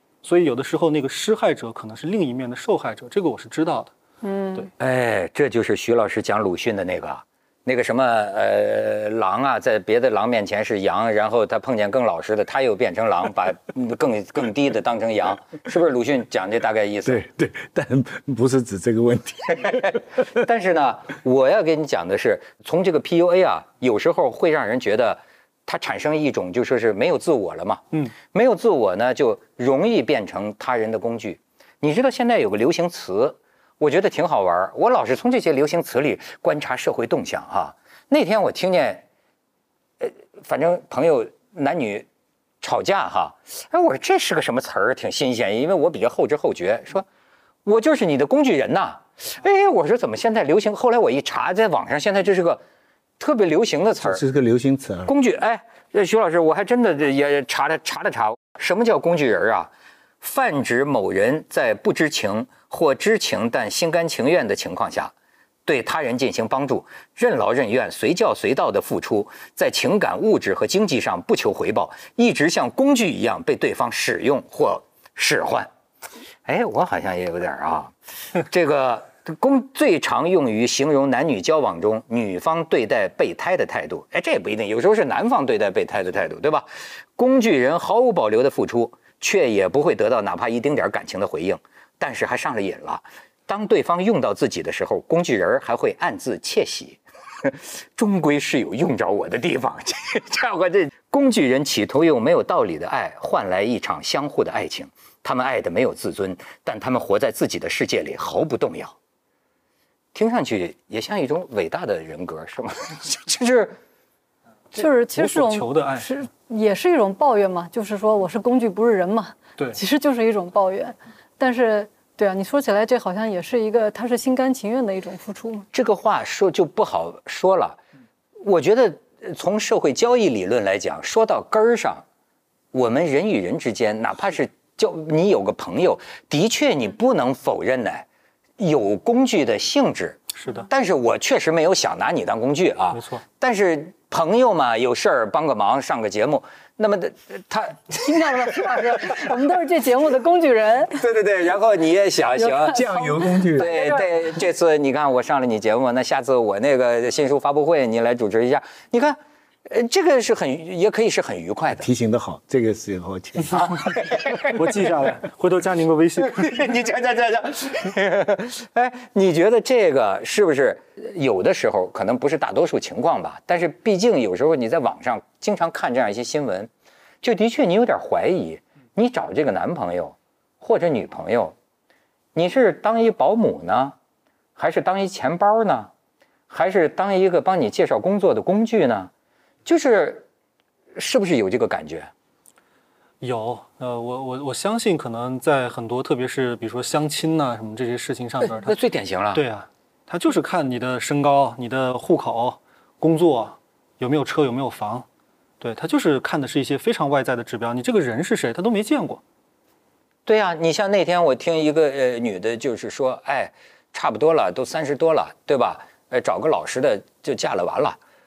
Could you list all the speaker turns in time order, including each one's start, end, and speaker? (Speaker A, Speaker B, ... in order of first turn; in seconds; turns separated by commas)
Speaker A: 0.2-3.9, Speaker B: 4.2-4.7, Speaker C: 4.8-17.2, Speaker D: 17.1-20.0, Speaker C: 19.6-39.0, Speaker C: 40.0-42.1, Speaker C: 42.6-47.1, Speaker C: 47.7-52.6, Speaker C: 53.2-54.2, Speaker D: 54.0-55.1, Speaker C: 55.1-59.7, Speaker C: 60.2-65.1, Speaker C: 65.7-75.7, Speaker C: 76.5-109.0, Speaker C: 110.2-113.7, Speaker B: 114.8-125.7, Speaker A: 114.8-116.1, Speaker C: 125.7-127.8, Speaker C: 128.4-132.0, Speaker C: 132.7-138.1, Speaker C: 138.6-140.2, Speaker A: 140.4-140.7, Speaker C: 140.7-149.3, Speaker A: 142.9-143.2, Speaker B: 148.0-151.0, Speaker C: 151.0-152.8, Speaker B: 152.4-154.1, Speaker D: 152.6-153.8, Speaker C: 153.6-161.9, Speaker D: 161.8-164.0, Speaker C: 163.5-164.6, Speaker A: 164.5-166.5, Speaker C: 166.2-176.7, Speaker C: 177.2-181.6, Speaker C: 182.3-184.0, Speaker C: 184.6-185.9, Speaker C: 186.5-189.1, Speaker C: 189.7-190.2, Speaker C: 191.0-192.1, Speaker A: 193.2-198.8, Speaker C: 198.4-199.4, Speaker A: 199.3-205.1, Speaker A: 205.6-209.2, Speaker C: 210.3-218.0